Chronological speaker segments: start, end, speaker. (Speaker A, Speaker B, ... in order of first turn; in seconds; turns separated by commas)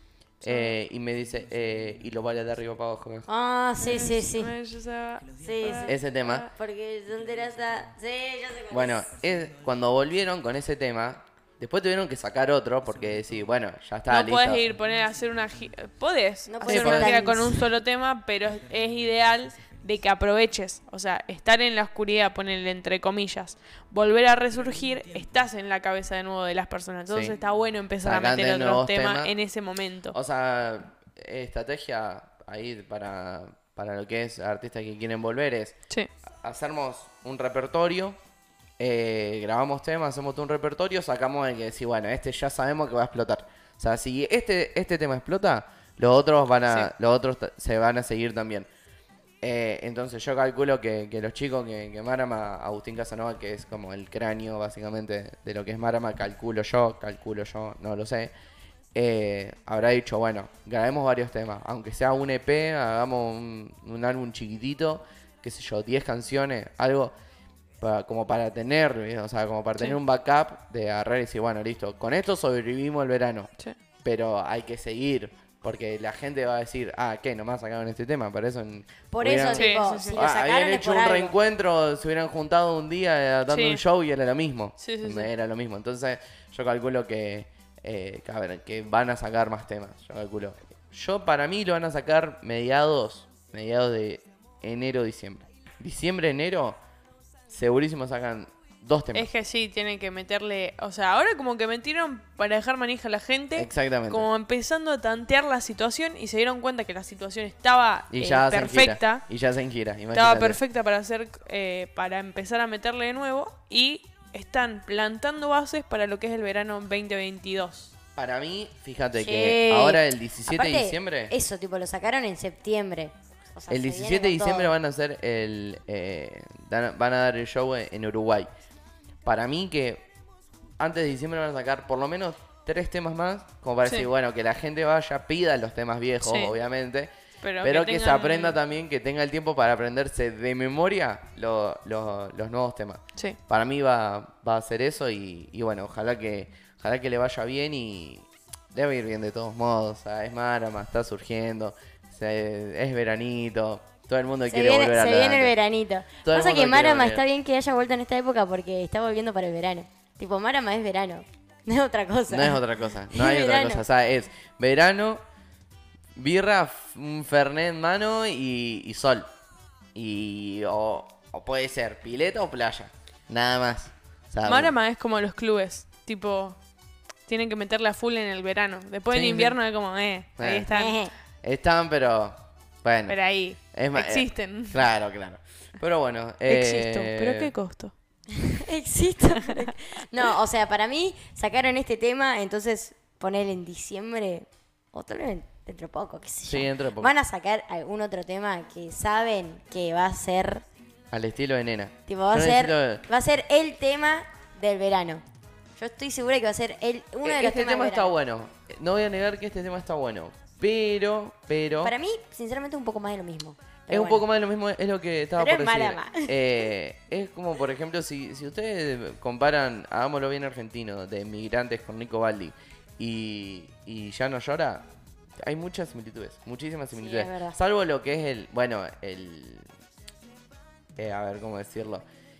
Speaker A: 0.4-3.3, Speaker B: 0.4-0.7, Speaker C: 3.3-4.5, Speaker B: 3.8-6.5, Speaker C: 5.4-9.1, Speaker A: 5.8-6.5, Speaker A: 8.7-14.6, Speaker B: 14.1-30.1, Speaker C: 16.5-17.7, Speaker A: 16.6-17.1, Speaker A: 27.1-27.4, Speaker A: 28.0-29.3, Speaker A: 30.1-35.7, Speaker A: 36.4-38.2, Speaker A: 38.8-48.7, Speaker A: 49.4-58.3, Speaker A: 58.9-67.1, Speaker A: 67.8-73.5, Speaker A: 74.0-96.8, Speaker C: 79.1-81.3, Speaker B: 79.5-80.2, Speaker B: 83.5-83.8, Speaker B: 84.8-85.3, Speaker A: 97.5-99.3, Speaker B: 99.1-109.2, Speaker A: 103.5-104.3, Speaker A: 108.1-110.6, Speaker B: 110.1-117.9, Speaker A: 118.1-121.3, Speaker C: 119.1-124.8, Speaker A: 123.7-128.5, Speaker A: 129.2-130.1, Speaker A: 130.8-155.5, Speaker B: 136.2-136.6, Speaker B: 137.4-138.6, Speaker C: 154.5-163.8, Speaker A: 156.2-157.2, Speaker A: 162.3-165.2, Speaker A: 166.2-169.3, Speaker A: 169.9-174.7, Speaker B: 174.4-176.6, Speaker B: 177.3-181.0, Speaker A: 179.1-179.6, Speaker A: 180.4-180.7, Speaker C: 180.7-181.1, Speaker A: 181.4-187.5, Speaker B: 183.1-184.8, Speaker B: 186.4-187.9, Speaker C: 188.4-200.6, Speaker B: 189.4-189.7, Speaker A: 196.4-197.1, Speaker A: 201.1-203.0, Speaker C: 202.1-205.2, Speaker C: 205.8-208.1, Speaker A: 207.2-211.9, Speaker C: 211.8-214.3, Speaker A: 213.9-224.8, Speaker C: 215.4-216.6, Speaker A: 225.4-229.7, Speaker C: 226.9-227.6, Speaker A: 230.9-232.0